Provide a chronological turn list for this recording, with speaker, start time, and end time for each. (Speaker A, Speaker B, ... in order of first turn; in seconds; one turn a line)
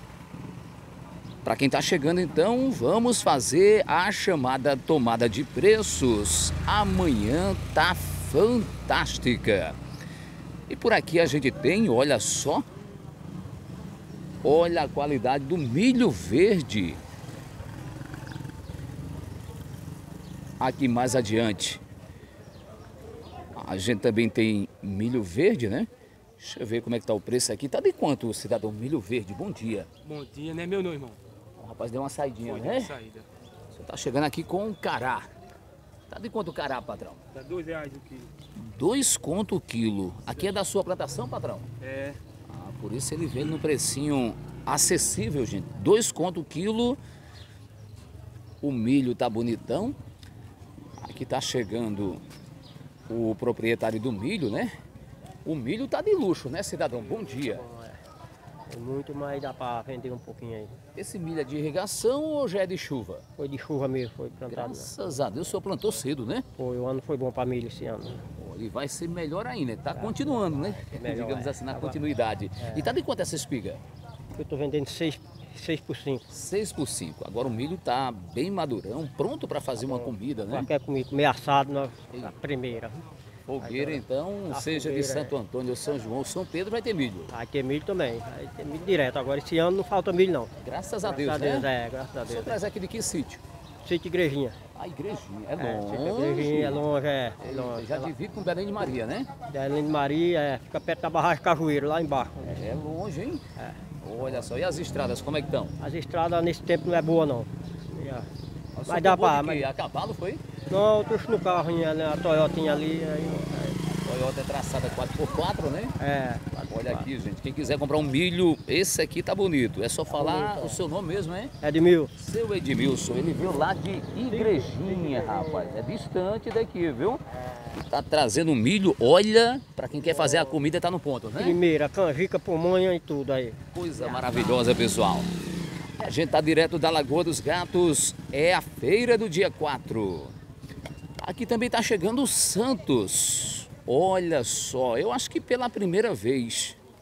Speaker A: 1.4-9.8
Speaker A: 10.7-12.6
Speaker A: 14.4-17.0
Speaker A: 20.6-21.8
Speaker A: 23.6-25.9
Speaker A: 26.4-29.9
Speaker B: 30.0-31.2
Speaker A: 31.6-32.9
Speaker B: 32.4-33.2
Speaker A: 33.7-35.3
Speaker A: 36.1-37.2
Speaker B: 37.3-38.3
Speaker A: 38.5-41.7
Speaker B: 41.8-42.2
Speaker A: 42.5-47.0
Speaker A: 48.6-50.0
Speaker A: 51.0-52.2
Speaker A: 53.1-54.7
Speaker A: 55.4-57.6
Speaker C: 57.1-58.0
Speaker C: 58.7-60.7
Speaker A: 61.0-63.2
Speaker C: 63.4-64.9
Speaker A: 64.5-66.5
Speaker C: 66.6-68.2
Speaker A: 68.3-73.8
Speaker C: 69.9-72.0
Speaker C: 72.6-72.9
Speaker C: 74.4-76.2
Speaker A: 76.3-80.7
Speaker C: 79.8-83.0
Speaker A: 83.5-87.3
Speaker C: 83.6-85.3
Speaker C: 87.3-90.5
Speaker A: 90.6-91.7
Speaker C: 91.0-92.6
Speaker A: 92.2-93.4
Speaker C: 93.8-94.5
Speaker A: 94.7-96.8
Speaker C: 95.6-98.1
Speaker A: 97.4-99.3
Speaker C: 99.5-102.6
Speaker A: 102.5-103.4
Speaker A: 104.0-105.7
Speaker C: 105.8-108.3
Speaker A: 108.8-110.4
Speaker C: 108.9-109.7
Speaker C: 110.7-113.8
Speaker A: 114.0-115.9
Speaker C: 116.0-117.1
Speaker A: 116.7-121.5
Speaker C: 120.1-120.8
Speaker C: 121.6-122.1
Speaker A: 122.2-127.2
Speaker C: 124.3-125.7
Speaker A: 127.9-131.6
Speaker C: 130.1-130.6
Speaker C: 131.3-134.6
Speaker A: 133.7-135.3
Speaker A: 136.0-140.3
Speaker A: 141.2-146.8